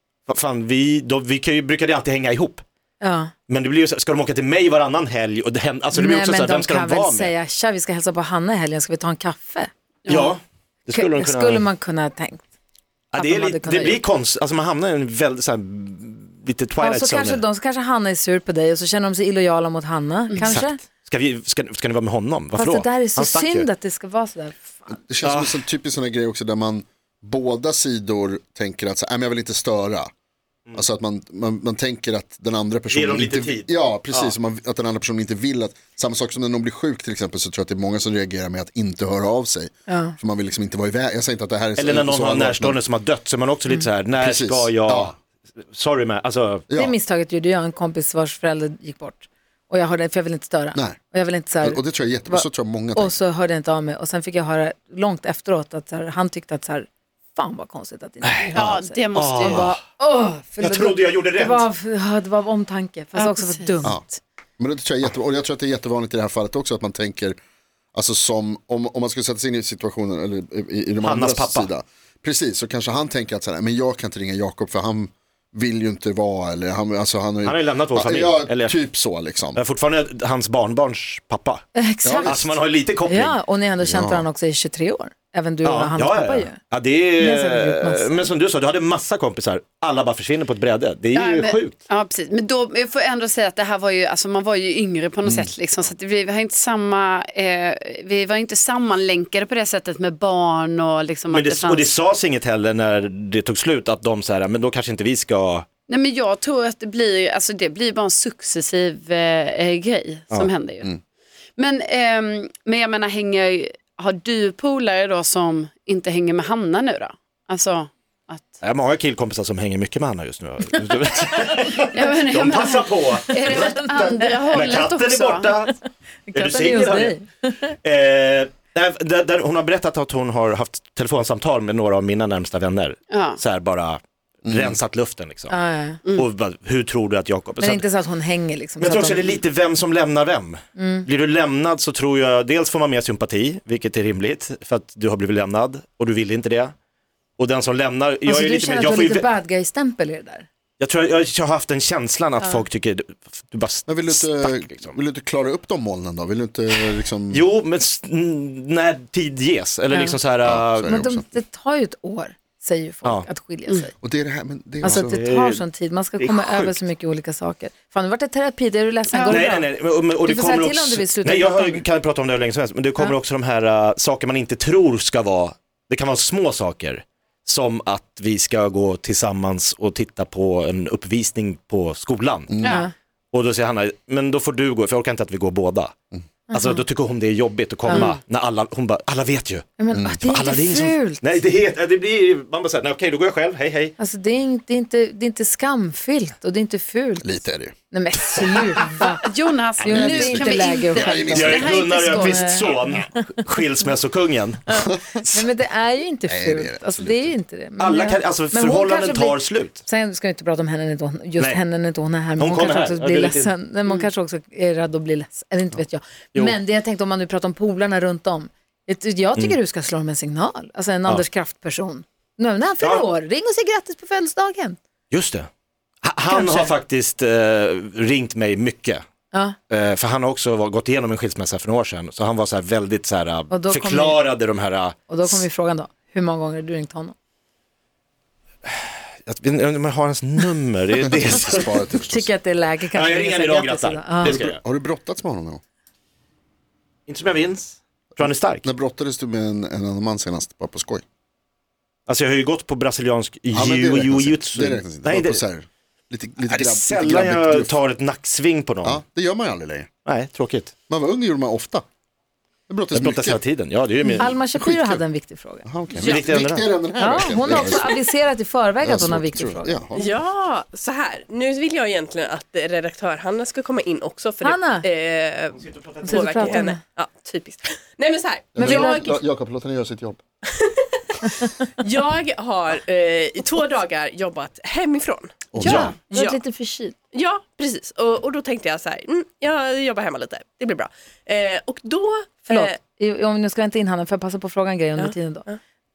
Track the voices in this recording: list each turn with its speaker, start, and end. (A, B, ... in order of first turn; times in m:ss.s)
0:00.3-0:02.6 A
0:03.0-0:03.3 B
0:03.5-0:07.3 A
0:05.9-0:10.4 B
0:10.1-0:11.7 A
0:10.9-0:12.4 B
0:13.1-0:17.4 A
0:13.1-0:14.0 B
0:16.8-0:20.8 B
0:20.4-0:23.7 A
0:22.6-0:25.0 B
0:24.9-0:30.1 C
0:25.2-0:25.6 A
0:30.8-0:42.8 C
0:32.9-0:34.3 A
0:39.9-0:40.2 B
0:41.8-0:45.1 A
0:44.2-0:45.2 C
0:45.7-0:46.6 A
0:46.7-0:46.9 C
0:46.7-1:04.2 B
0:51.6-0:53.1 C
0:58.2-0:58.6 A
0:58.6-0:59.6 D
0:58.6-0:58.8 C
0:59.1-0:59.8 A
1:00.6-1:01.6 A
1:03.2-1:03.7 D
1:04.6-1:07.4 C
1:07.9-1:19.6 C
1:11.0-1:11.7 A
1:17.4-1:18.8 A
1:19.6-1:21.6 A
1:21.8-1:26.6 B
1:22.0-1:22.5 C
1:22.2-1:23.4 A
1:23.8-1:24.2 C
1:25.6-1:31.8 A
1:27.2-1:28.2 B
1:31.1-1:41.9 D
1:41.3-1:45.7 A
1:45.9-1:50.9 D
1:50.3-1:51.0 C
1:51.6-1:58.6 D
1:58.6-2:05.8 A
2:01.9-2:05.5 D
2:03.4-2:04.5 B
2:06.3-2:07.5 B
2:06.3-2:07.2 A
2:07.8-2:15.6 A
2:13.1-2:13.4 D
2:14.4-2:14.8 C
2:15.5-2:16.0 B
2:16.1-2:17.8 A
2:17.6-2:19.4 B
2:18.8-2:26.7 A
2:20.8-2:21.1 B
2:27.4-2:29.3 A
2:28.2-2:30.4 B
2:30.8-2:35.0 A
2:33.9-2:37.4 C
2:37.3-2:41.0 A
2:39.9-2:40.2 B
2:40.4-2:41.2 C
2:40.9-2:43.9 B
2:44.0-2:45.2 C
2:44.8-2:49.7 B
2:44.9-2:45.6 A
2:46.2-2:46.8 A
2:49.1-2:49.4 D
2:49.3-3:02.7 A
2:50.2-2:51.8 B
3:02.5-3:02.8 C
3:02.7-3:02.9 B
3:03.3-3:05.9 A
3:06.5-3:06.8 B
3:06.5-3:13.9 A
3:07.9-3:08.2 D
3:09.8-3:11.4 B
3:09.9-3:10.2 C
3:14.0-3:19.2 B
3:17.2-3:17.7 C
3:19.0-3:23.0 D
3:19.8-3:23.4 B
3:19.8-3:21.7 C
3:21.3-3:24.8 A
3:24.8-3:44.8 B
3:24.8-3:25.2 C
3:26.3-3:27.4 C
3:27.8-3:29.8 A
3:31.4-3:31.6 A
3:32.4-3:33.5 A
3:42.8-3:43.1 A
3:45.1-3:45.5 A
3:46.0-3:49.0 A
3:46.3-3:46.7 B
3:49.3-3:49.6 B
3:49.7-3:55.4 A
3:53.5-3:54.2 B
3:55.1-3:57.1 B
3:59.2-4:01.7 A
4:01.0-4:02.3 C
4:02.1-4:04.4 B
4:02.9-4:04.6 A
4:04.2-4:05.6 C
4:07.1-4:08.6 A
4:08.2-4:11.0 C
4:12.1-4:15.4 A
4:13.5-4:17.8 C
4:16.4-4:19.0 A
4:18.8-4:19.9 C
4:20.1-4:20.7 A
4:20.9-4:21.8 C
4:22.7-4:23.4 C
4:22.9-4:24.4 A
4:24.2-4:25.6 B
4:24.6-4:25.0 C
4:25.6-4:28.0 C
4:26.0-4:26.3 E
4:26.0-4:26.7 A
4:27.0-4:29.8 B
4:28.8-4:30.1 C
4:29.9-4:39.2 E
4:34.4-4:34.9 B
4:35.5-4:36.6 A
4:36.0-4:36.8 B
4:38.6-4:40.2 C
4:38.6-4:39.2 B
4:40.6-4:40.8 E
4:41.4-4:45.4 E
4:45.5-4:45.9 C
4:45.6-4:45.9 A
4:45.6-4:46.9 B
4:46.1-4:46.4 E
4:47.1-4:52.8 E
4:52.5-4:55.4 B
4:55.0-4:55.6 E